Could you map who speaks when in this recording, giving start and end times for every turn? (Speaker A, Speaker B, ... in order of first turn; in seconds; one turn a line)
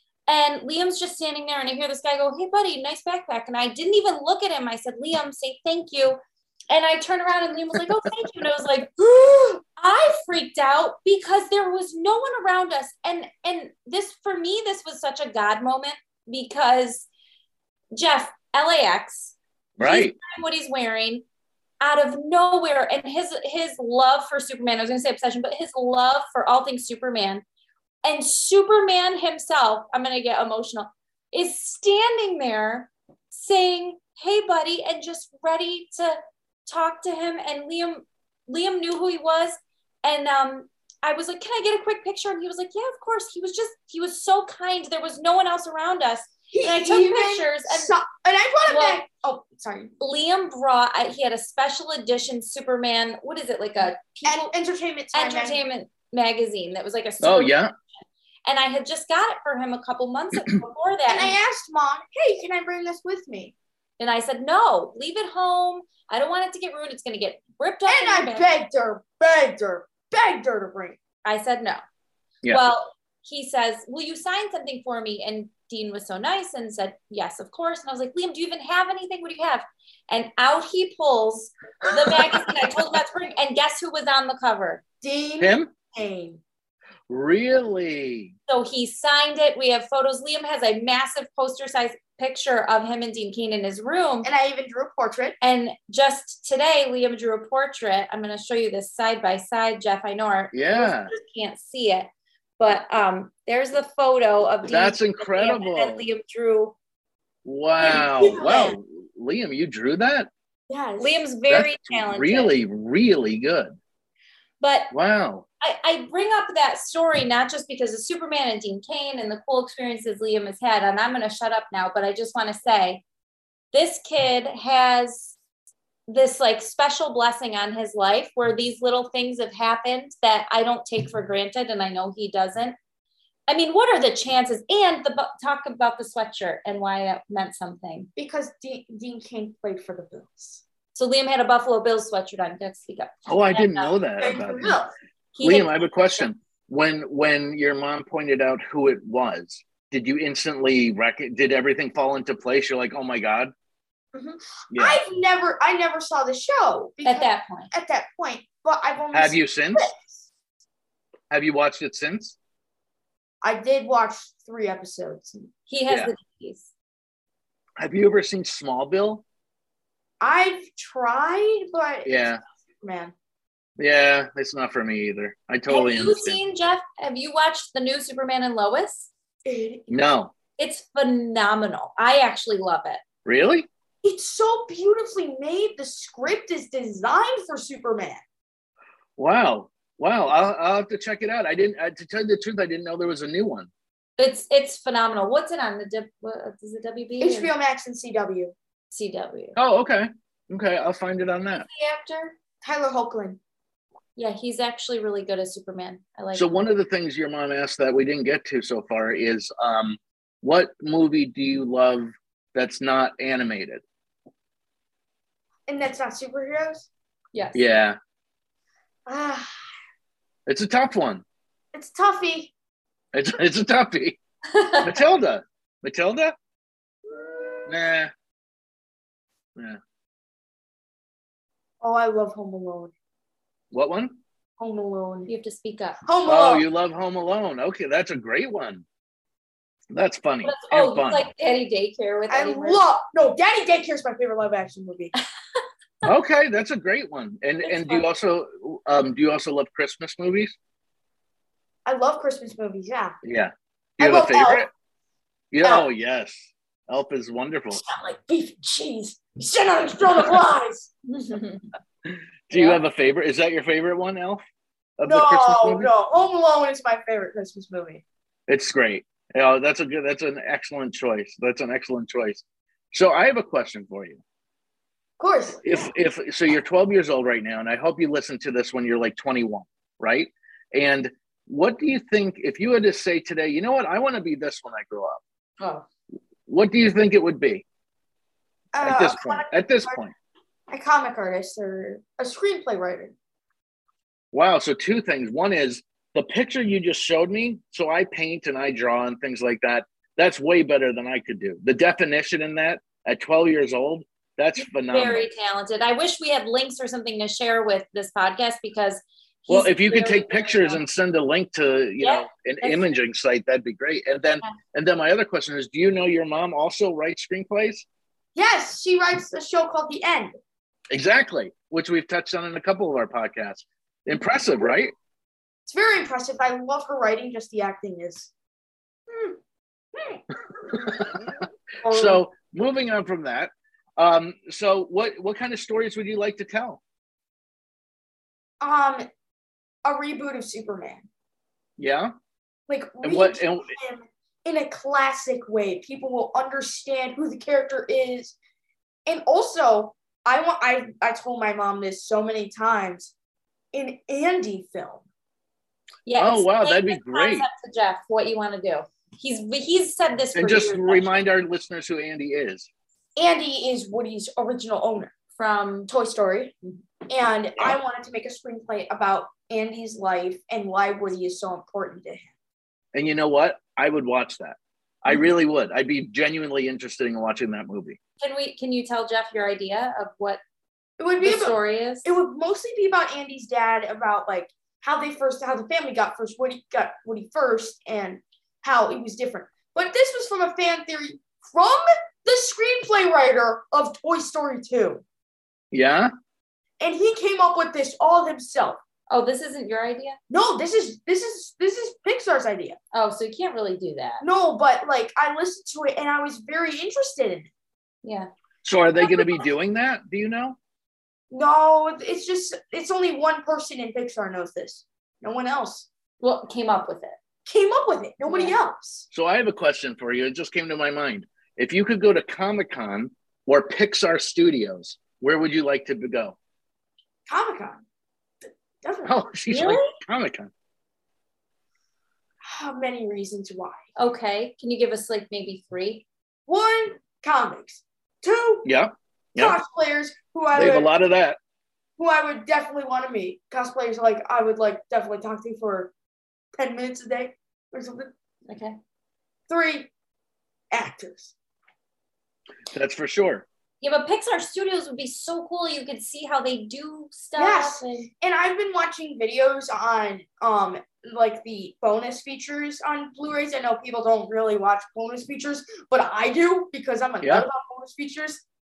Speaker A: 0.3-6.2
Speaker A: 6.7-8.9
Speaker B: 9.0-9.6
Speaker A: 9.8-17.1
Speaker A: 17.9-21.2
Speaker C: 19.8-20.1
Speaker A: 21.8-27.4
Speaker A: 28.0-47.9
Speaker B: 46.5-49.9
Speaker A: 48.7-49.0
Speaker A: 50.0-54.5
Speaker B: 54.2-55.6
Speaker A: 55.1-57.6
Speaker C: 57.2-57.7
Speaker A: 58.5-61.3
Speaker B: 61.1-63.5
Speaker A: 64.0-68.5
Speaker B: 67.9-71.0
Speaker A: 71.2-71.8
Speaker A: 72.5-84.8
Speaker B: 85.0-86.4
Speaker C: 85.4-85.7
Speaker C: 87.1-88.3
Speaker A: 88.5-94.3
Speaker B: 94.2-95.4
Speaker A: 95.4-106.7
Speaker C: 100.5-101.1
Speaker C: 104.7-106.0
Speaker C: 107.4-110.3
Speaker B: 107.8-108.8
Speaker B: 110.7-111.2
Speaker A: 111.0-112.5
Speaker C: 111.5-113.8
Speaker A: 114.6-114.9
Speaker C: 114.9-115.4
Speaker A: 115.6-123.0
Speaker A: 123.7-125.3
Speaker A: 126.1-132.8
Speaker A: 133.5-138.1
Speaker B: 138.2-140.6
Speaker A: 140.9-144.0
Speaker C: 143.3-144.8
Speaker B: 144.2-144.9
Speaker A: 145.3-145.9
Speaker C: 145.4-153.5
Speaker B: 154.1-160.2
Speaker C: 154.7-155.0
Speaker A: 157.0-157.7
Speaker C: 159.1-159.9
Speaker C: 161.3-162.3
Speaker B: 163.4-165.5
Speaker A: 165.7-166.7
Speaker C: 167.8-169.2
Speaker B: 170.2-173.1
Speaker C: 172.0-172.4
Speaker C: 173.8-176.4
Speaker A: 175.7-179.1
Speaker B: 179.4-179.9
Speaker C: 179.9-180.3
Speaker A: 180.6-183.0
Speaker C: 183.2-183.7
Speaker B: 184.0-188.2
Speaker C: 189.2-193.7
Speaker A: 194.2-197.5
Speaker B: 197.2-198.5
Speaker A: 198.9-199.6
Speaker C: 199.6-201.7
Speaker B: 201.7-203.4
Speaker A: 204.2-206.4
Speaker C: 206.3-213.8
Speaker B: 215.7-216.9
Speaker A: 217.3-217.6
Speaker C: 217.5-218.0
Speaker B: 219.1-219.5
Speaker C: 220.5-221.2
Speaker B: 221.7-222.5
Speaker C: 223.1-224.2
Speaker A: 224.5-224.9
Speaker C: 224.8-226.3
Speaker C: 227.7-228.1
Speaker B: 231.8-232.9
Speaker C: 233.7-234.2
Speaker B: 234.6-235.3
Speaker A: 235.3-236.0
Speaker B: 236.1-236.6
Speaker C: 236.2-238.8
Speaker C: 239.9-241.2
Speaker A: 240.4-242.8
Speaker B: 242.3-245.1
Speaker C: 246.0-250.5
Speaker A: 247.6-248.1
Speaker B: 251.8-253.2
Speaker C: 253.2-254.7
Speaker B: 254.0-254.7
Speaker C: 255.5-257.8
Speaker B: 257.7-260.9
Speaker A: 261.1-261.6
Speaker C: 262.0-264.4
Speaker A: 262.5-262.8
Speaker C: 265.0-265.9
Speaker B: 265.1-268.0
Speaker C: 268.5-274.2
Speaker B: 275.2-275.7
Speaker C: 275.6-285.2
Speaker A: 285.6-285.8
Speaker C: 286.5-287.6
Speaker B: 288.7-290.0
Speaker C: 288.8-290.1
Speaker B: 290.7-293.1
Speaker C: 294.3-305.3
Speaker A: 304.8-310.8
Speaker C: 309.5-317.9
Speaker A: 312.0-312.9
Speaker B: 318.3-320.4
Speaker C: 320.9-324.9
Speaker B: 325.6-328.3
Speaker B: 329.1-329.4
Speaker B: 329.9-331.2
Speaker C: 330.7-331.3
Speaker B: 331.8-332.2
Speaker C: 331.9-336.8
Speaker B: 338.6-339.1
Speaker B: 339.8-341.1
Speaker C: 341.8-342.1
Speaker B: 342.7-348.3
Speaker C: 343.0-343.7
Speaker B: 349.1-353.1
Speaker B: 353.7-355.0
Speaker A: 356.1-361.2
Speaker C: 356.2-357.5
Speaker C: 360.3-362.7
Speaker B: 363.2-365.1
Speaker A: 365.4-365.9
Speaker B: 365.9-366.5
Speaker B: 367.1-372.3
Speaker C: 372.9-378.0
Speaker A: 378.2-380.4
Speaker B: 381.0-395.0
Speaker A: 381.2-382.1
Speaker C: 395.7-396.1
Speaker B: 396.8-398.8
Speaker A: 399.1-400.2
Speaker B: 400.3-402.8
Speaker A: 402.9-404.2
Speaker B: 404.2-407.5
Speaker A: 408.0-408.3
Speaker C: 408.6-410.6
Speaker B: 411.3-415.9
Speaker A: 416.2-417.2
Speaker B: 417.5-419.1
Speaker A: 418.3-418.5
Speaker C: 419.1-426.4
Speaker B: 427.3-427.8
Speaker B: 428.8-429.2
Speaker C: 429.1-430.5
Speaker A: 429.5-429.9
Speaker B: 432.4-433.8
Speaker A: 434.0-436.0
Speaker B: 436.5-438.7
Speaker C: 438.6-439.6
Speaker B: 439.4-440.9
Speaker C: 440.5-441.4
Speaker B: 442.0-445.9
Speaker B: 446.6-448.1
Speaker A: 448.5-448.8
Speaker B: 449.5-449.9
Speaker B: 450.7-451.3
Speaker C: 452.7-453.4
Speaker A: 453.8-458.1
Speaker B: 457.4-468.4
Speaker C: 467.2-467.5